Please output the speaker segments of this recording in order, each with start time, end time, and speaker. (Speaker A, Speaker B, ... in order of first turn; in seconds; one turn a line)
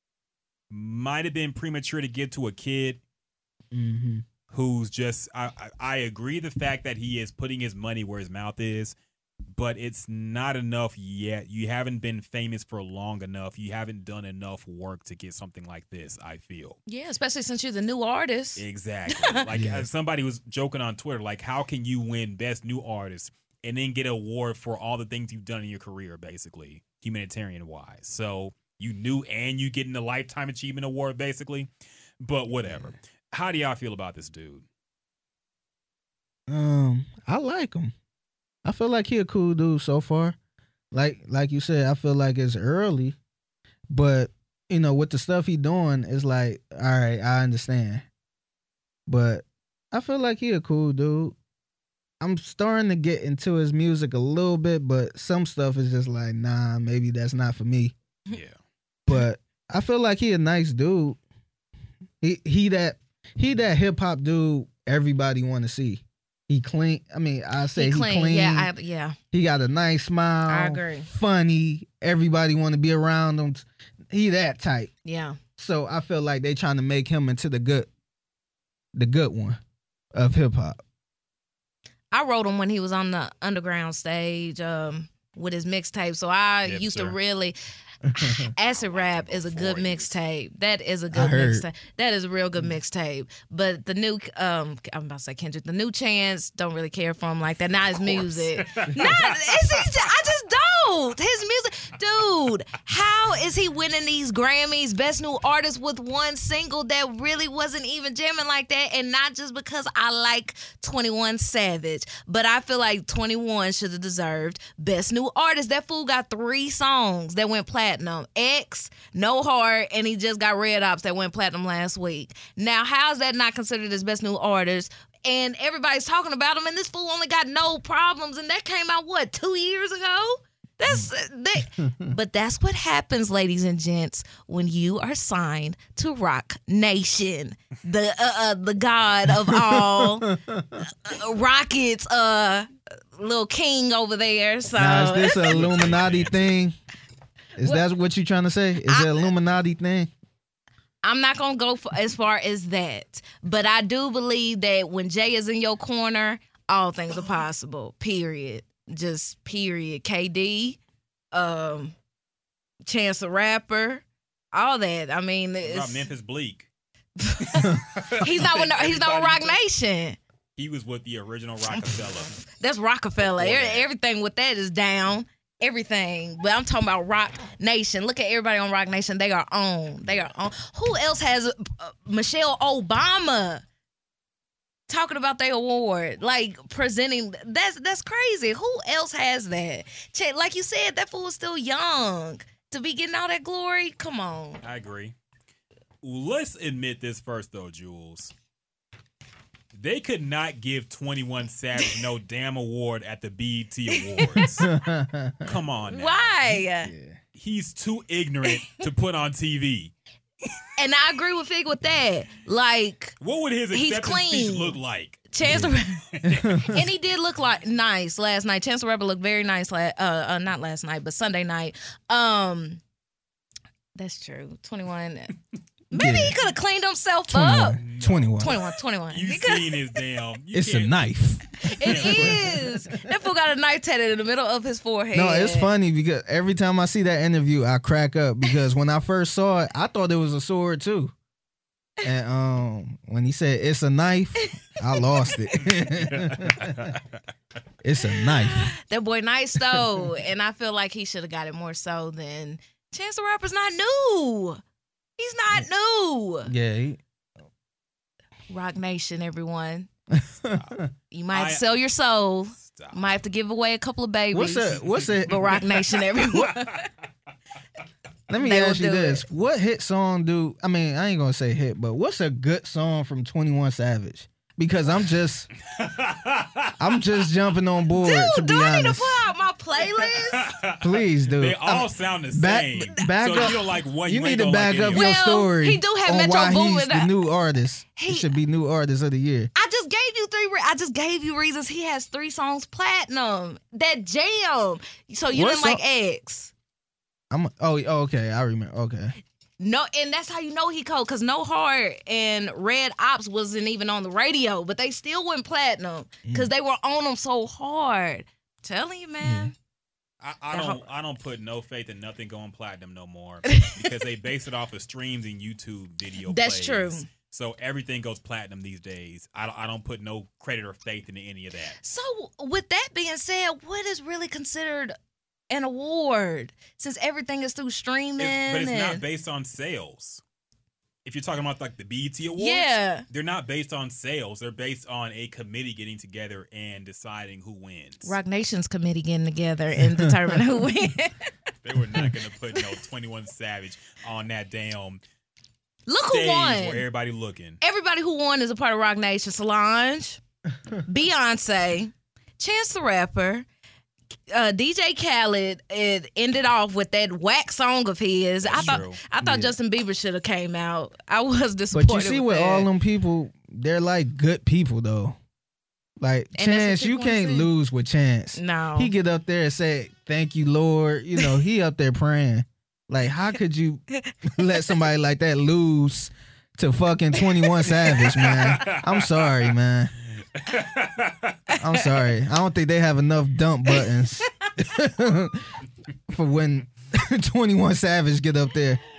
Speaker A: 0.7-3.0
Speaker B: 3.7-4.2
Speaker A: 4.5-9.0
Speaker A: 9.5-16.8
Speaker C: 16.9-19.4
Speaker A: 18.6-34.7
Speaker B: 19.5-19.9
Speaker B: 36.5-37.9
Speaker B: 38.6-40.4
Speaker B: 40.9-43.2
Speaker B: 43.9-48.0
Speaker B: 49.1-51.4
Speaker B: 52.2-57.9
Speaker A: 58.3-58.6
Speaker B: 59.1-61.2
Speaker B: 62.2-68.7
Speaker C: 67.7-69.2
Speaker B: 69.3-74.9
Speaker C: 70.5-71.1
Speaker C: 75.0-75.4
Speaker B: 75.6-77.9
Speaker B: 79.0-79.6
Speaker B: 80.1-80.8
Speaker C: 82.1-87.6
Speaker A: 86.6-87.2
Speaker B: 88.1-88.5
Speaker C: 88.1-140.3
Speaker A: 88.8-90.2
Speaker B: 91.1-91.7
Speaker A: 97.9-99.8
Speaker B: 131.8-132.1
Speaker B: 139.3-140.9
Speaker C: 140.8-145.6
Speaker B: 144.8-146.7
Speaker A: 145.5-146.6
Speaker B: 147.6-150.1
Speaker C: 148.8-149.3
Speaker C: 151.0-160.8
Speaker C: 161.3-161.9
Speaker C: 162.9-166.1
Speaker A: 165.6-166.7
Speaker C: 167.2-170.2
Speaker A: 167.4-169.6
Speaker A: 170.6-172.4
Speaker C: 171.7-183.6
Speaker A: 173.2-173.9
Speaker A: 180.1-180.3
Speaker C: 184.9-194.6
Speaker A: 194.6-195.2
Speaker A: 196.0-198.3
Speaker A: 199.7-204.7
Speaker C: 203.9-204.7
Speaker B: 204.6-205.5
Speaker A: 205.4-206.6
Speaker C: 205.9-206.9
Speaker B: 206.8-207.2
Speaker A: 207.3-209.9
Speaker C: 210.8-213.2
Speaker A: 213.2-216.8
Speaker C: 213.7-214.8
Speaker C: 215.3-216.0
Speaker B: 215.4-215.7
Speaker B: 216.3-216.9
Speaker C: 216.6-222.8
Speaker C: 224.0-225.3
Speaker C: 225.9-227.8
Speaker B: 225.9-226.3
Speaker B: 227.3-228.6
Speaker A: 227.8-231.1
Speaker C: 228.4-229.9
Speaker B: 230.5-233.1
Speaker A: 231.7-232.5
Speaker C: 231.7-235.7
Speaker B: 235.1-241.1
Speaker B: 242.0-246.9
Speaker C: 244.4-245.4
Speaker A: 245.6-247.2
Speaker B: 247.8-248.7
Speaker C: 248.1-254.6
Speaker B: 249.7-250.1
Speaker C: 255.2-256.5
Speaker B: 256.5-257.0
Speaker C: 258.5-259.9
Speaker B: 260.1-260.9
Speaker A: 260.5-260.8
Speaker C: 261.1-266.9
Speaker A: 261.3-261.6
Speaker A: 262.6-263.0
Speaker B: 264.3-265.5
Speaker A: 264.8-266.8
Speaker B: 268.3-275.5
Speaker C: 268.4-269.2
Speaker A: 275.6-277.2
Speaker B: 276.8-279.2
Speaker C: 277.9-280.5
Speaker A: 279.9-285.1
Speaker B: 280.8-289.5
Speaker C: 283.0-283.5
Speaker C: 284.9-287.1
Speaker C: 288.0-288.3
Speaker C: 289.6-296.5
Speaker B: 295.3-295.8
Speaker B: 297.3-299.1
Speaker C: 299.6-309.5
Speaker B: 309.2-309.5
Speaker A: 310.2-321.8
Speaker C: 310.5-310.8
Speaker C: 313.5-313.9
Speaker C: 316.2-317.1
Speaker C: 321.8-324.9
Speaker C: 325.5-329.0
Speaker A: 328.2-330.2
Speaker A: 331.1-338.1
Speaker C: 332.4-333.1
Speaker C: 338.0-341.3
Speaker B: 339.8-340.4
Speaker A: 341.6-345.0
Speaker C: 345.9-346.9
Speaker A: 346.1-347.6
Speaker C: 347.6-350.2
Speaker C: 350.9-353.5
Speaker C: 354.3-362.7
Speaker A: 358.4-359.0
Speaker B: 359.2-359.6
Speaker B: 361.7-365.2
Speaker B: 366.0-379.9
Speaker C: 366.4-367.5
Speaker C: 368.4-368.9
Speaker C: 374.0-374.8
Speaker C: 377.2-378.2
Speaker A: 378.2-379.5
Speaker A: 380.4-381.4
Speaker B: 381.6-385.5
Speaker C: 381.7-382.1
Speaker C: 383.7-384.5
Speaker B: 386.1-388.8